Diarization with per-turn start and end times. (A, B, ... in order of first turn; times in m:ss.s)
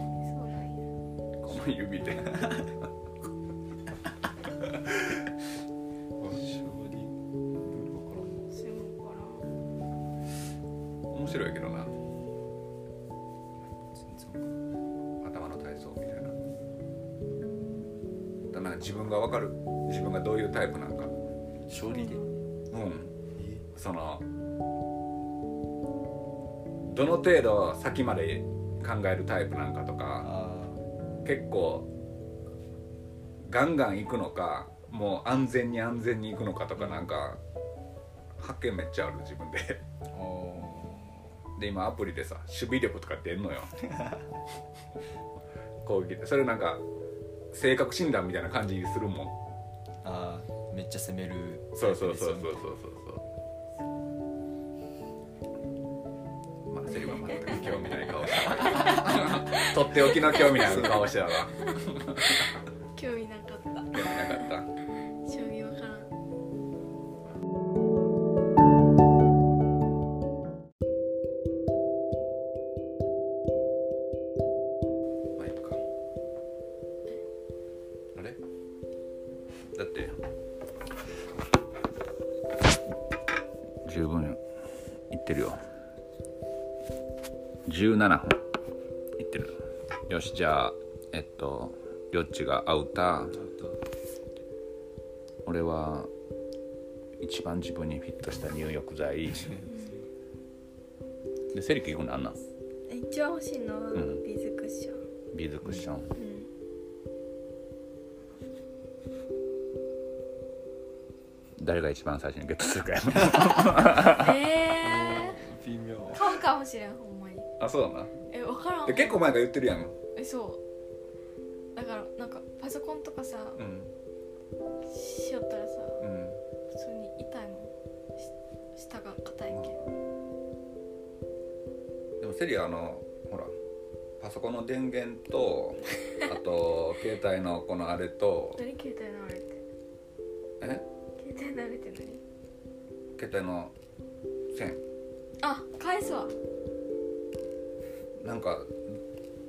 0:00.1-0:00.9 A
0:01.4-0:02.7 B
0:04.6-0:05.2 B
0:06.2-0:06.4 B
0:06.2-0:08.5 C
0:08.5-0:09.5 A
0:11.1-0:11.9 B
0:13.9-0:14.5 C
0:15.2-0:16.4 B
0:18.5-0:21.1 B
0:21.7-0:22.2 C
0:21.7-0:22.3 A
0:22.7-0:23.1 B
0:23.4-0:23.6 C
0:23.7-0:24.2 B
0:26.9-0:30.3 B
0:30.2-0:30.8 C
0:31.2-0:31.9 B
0:33.4-0:37.4 B
0:36.8-0:37.0 C
0:38.4-0:39.8 B
0:40.1-0:41.3 C
0:41.6-0:43.8 B
0:45.8-0:46.8 B
0:47.5-0:49.4 B
0:50.0-0:52.6 C
0:51.8-0:53.2 B
0:56.7-1:02.6 B
0:57.0-1:06.1 A
1:03.9-1:04.7 B
1:15.4-1:15.8 B
1:19.7-1:20.2 B
1:23.8-1:24.4 B
1:25.1-1:25.6 B
1:27.6-1:28.4 B
1:29.2-1:33.4 B
1:33.3-1:33.8 C
1:35.4-1:36.1 B
1:37.2-1:39.6 B
1:39.6-1:40.0 A
1:41.5-1:42.4 B
1:42.9-1:45.0 A
1:43.9-1:44.2 B
1:45.3-1:46.1 B
1:46.2-1:46.5 A
1:51.6-1:54.4 B
1:54.0-1:55.5 A
1:54.8-1:56.4 C
1:56.1-1:57.5 A
1:57.6-1:58.2 B
1:58.3-1:59.3 A
1:58.8-2:00.0 B
2:00.2-2:00.6 A
2:01.7-2:03.6 A
2:03.6-2:03.9 B
2:04.8-2:06.0 A
2:06.0-2:06.4 B
2:06.7-2:09.8 A
2:09.5-2:09.8 B
2:12.2-2:13.5 B
2:14.2-2:18.6 B
2:18.6-2:19.6 A
2:21.2-2:22.2 A
2:23.2-2:23.7 B
2:24.5-2:24.8 B
2:25.4-2:26.3 A
2:28.2-2:28.9 B